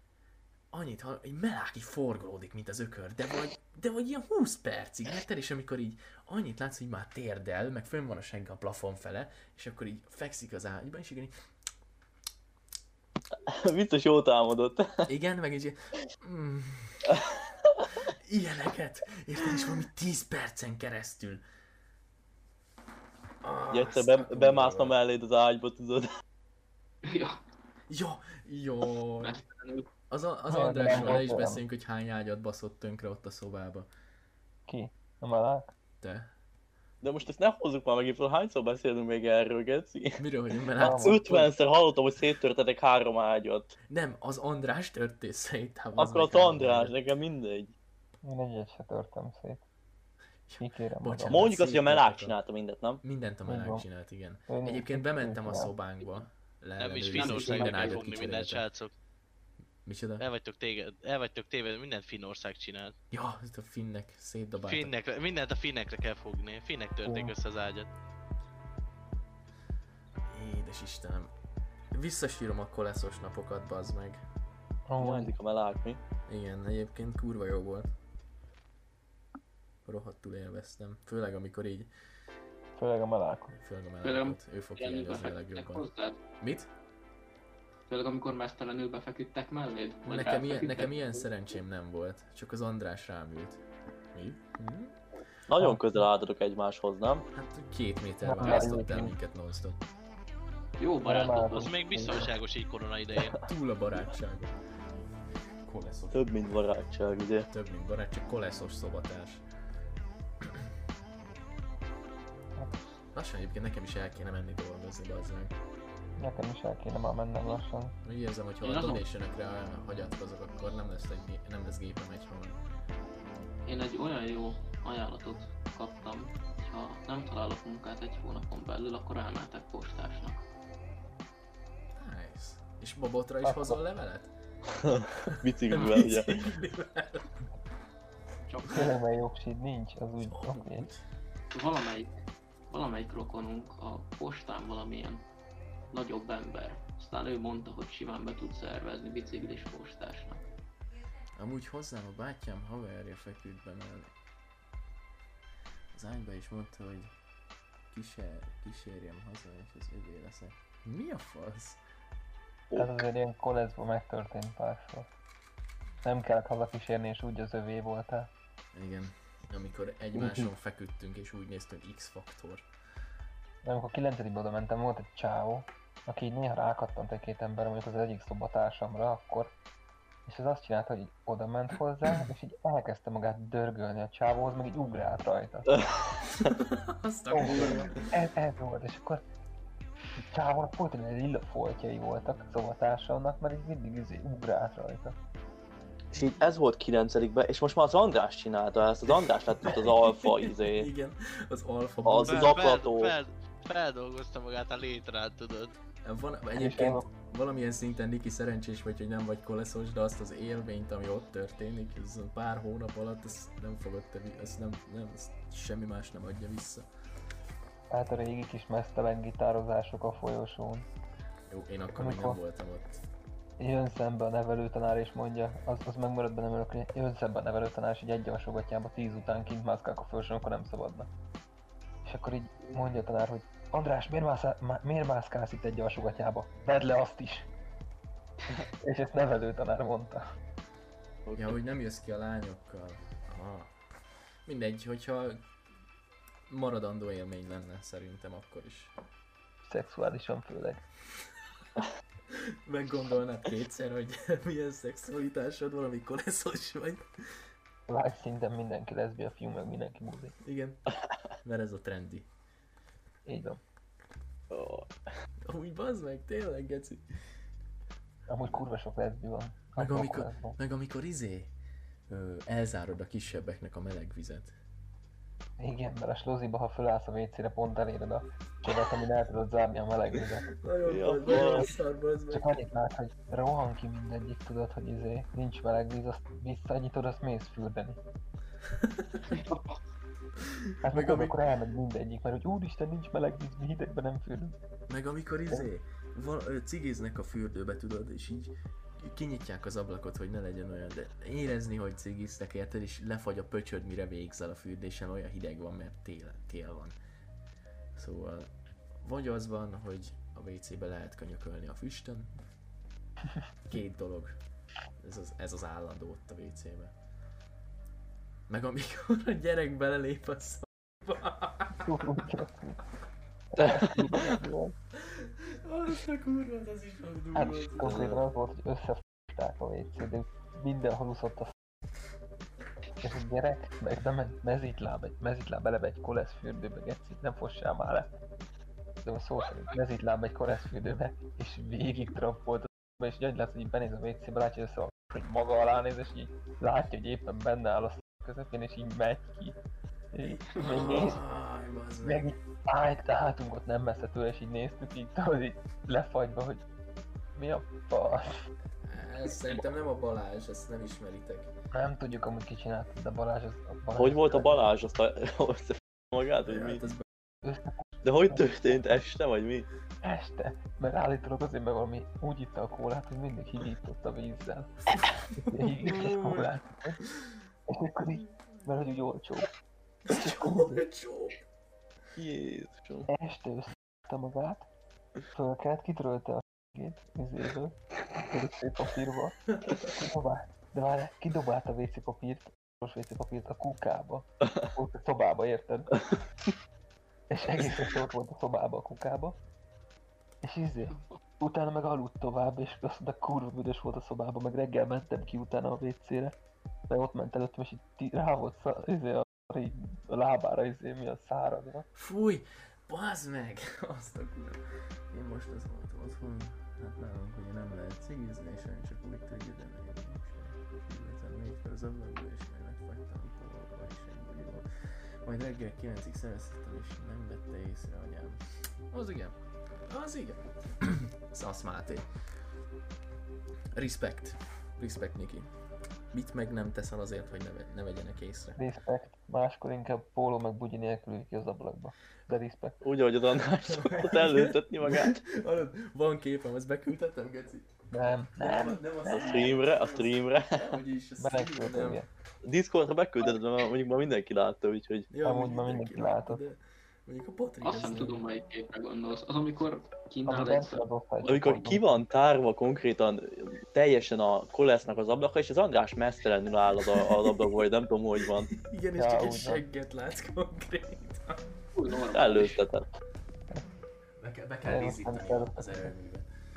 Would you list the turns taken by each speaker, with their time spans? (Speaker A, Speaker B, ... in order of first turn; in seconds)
Speaker A: 0.7-11.3, 15.1-17.0, 18.1-21.4, 23.4-25.0, 27.9-29.4, 30.1-33.9, 36.0-36.3, 40.2-41.5, 43.9-46.9, 50.5-52.4, 53.0-58.6, 59.8-60.2, 63.1-64.9, 70.3-71.3, 71.9-74.2, 76.3-77.9, 79.8-81.9, 83.6-85.8, 86.4-86.7, 90.0-93.6, 94.1-94.9, 97.3-99.8, 103.4-104.6, 105.6-106.3, 107.5-109.4, 113.1-115.5, 118.0-122.6, 131.9-134.3, 135.3-137.4, 140.2-141.0, 151.4-154.1, 155.9-157.1, 157.9-161.8, 168.7-172.7, 186.4-188.1, 199.1-202.6, 206.0-216.9, 221.5-223.1, 241.3-243.7, 244.4-245.4, 246.5-248.9, 252.3-257.0, 260.4-260.9, 261.4-262.3, 265.5-267.0, 269.8-271.5, 272.1-274.5, 280.6-282.5, 288.7-289.3, 290.4-291.4, 294.9-306.9, 307.9-308.5, 309.0-312.3, 313.6-314.3, 315.0-316.9, 318.5-322.3, 325.0-328.1, 350.2-352.4, 358.8-361.5, 366.4-367.0, 380.1-381.4, 389.6-389.8, 411.9-424.7, 425.2-429.3, 429.9-432.0, 433.7-435.5, 436.1-438.6, 443.6-452.0, 455.1-458.2, 466.9-467.4, 468.3-471.4, 474.2-476.3
Speaker B: 13.5-15.1, 23.7-26.1, 37.0-40.2, 40.9-43.7, 46.0-47.7, 51.3-53.0, 57.2-58.0, 75.0-76.0, 95.5-97.2, 106.1-107.5, 134.7-136.3, 162.7-163.0, 170.2-170.5, 185.7-186.2, 196.1-200.9, 202.0-203.2, 241.2-241.6, 264.5-264.9, 280.9-281.7, 327.8-328.2, 363.9-366.8, 368.0-369.7, 382.1-383.1, 442.8-445.2, 449.2-450.8, 452.4-455.1, 461.2-468.5, 472.1-472.9
Speaker C: 27.0-27.4, 29.2-29.9, 84.0-86.2, 87.9-91.2, 100.8-102.2, 118.6-119.0, 123.7-130.4, 135.7-136.0, 138.5-138.9, 141.5-142.2, 142.7-145.2, 145.9-150.4, 289.3-289.6, 457.6-460.8, 471.7-472.6
Speaker D: 30.5-31.6, 34.7-35.7, 40.8-41.3, 48.2-49.6, 50.6-51.5, 53.5-53.8, 54.5-55.7, 67.0-67.3, 74.9-75.3, 82.8-83.6, 95.6-96.0, 98.2-99.1, 101.0-102.3, 116.2-117.9, 133.4-133.8, 138.7-140.9, 162.7-165.1, 166.0-168.3, 173.6-179.5, 180.2-185.8, 187.3-189.2, 190.3-195.1, 206.5-207.1, 217.9-220.8, 222.0-222.4, 223.6-231.1, 232.0-237.5, 238.6-240.2, 249.6-250.8, 257.9-260.3, 263.2-263.6, 268.3-270.6, 275.6-280.6, 281.3-281.6, 282.3-288.0, 290.8-294.5, 321.7-322.8, 323.5-324.7, 327.3-331.5, 333.0-338.1, 339.0-349.6, 350.1-351.2, 352.0-356.6, 357.3-358.5, 361.7-364.6, 367.4-369.0, 370.0-377.0, 377.7-379.5, 380.1-380.8, 383.1-384.7, 385.3-387.8, 388.3-396.0, 397.3-399.4, 400.4-406.3, 406.9-411.9, 438.6-442.8, 447.9-449.5, 451.2-452.1, 455.2-456.4, 460.3-462.0, 469.0-469.6, 474.6-475.9
Speaker E: 56.8-58.9, 60.2-62.9, 64.6-67.9, 101.5-103.4, 202.2-205.7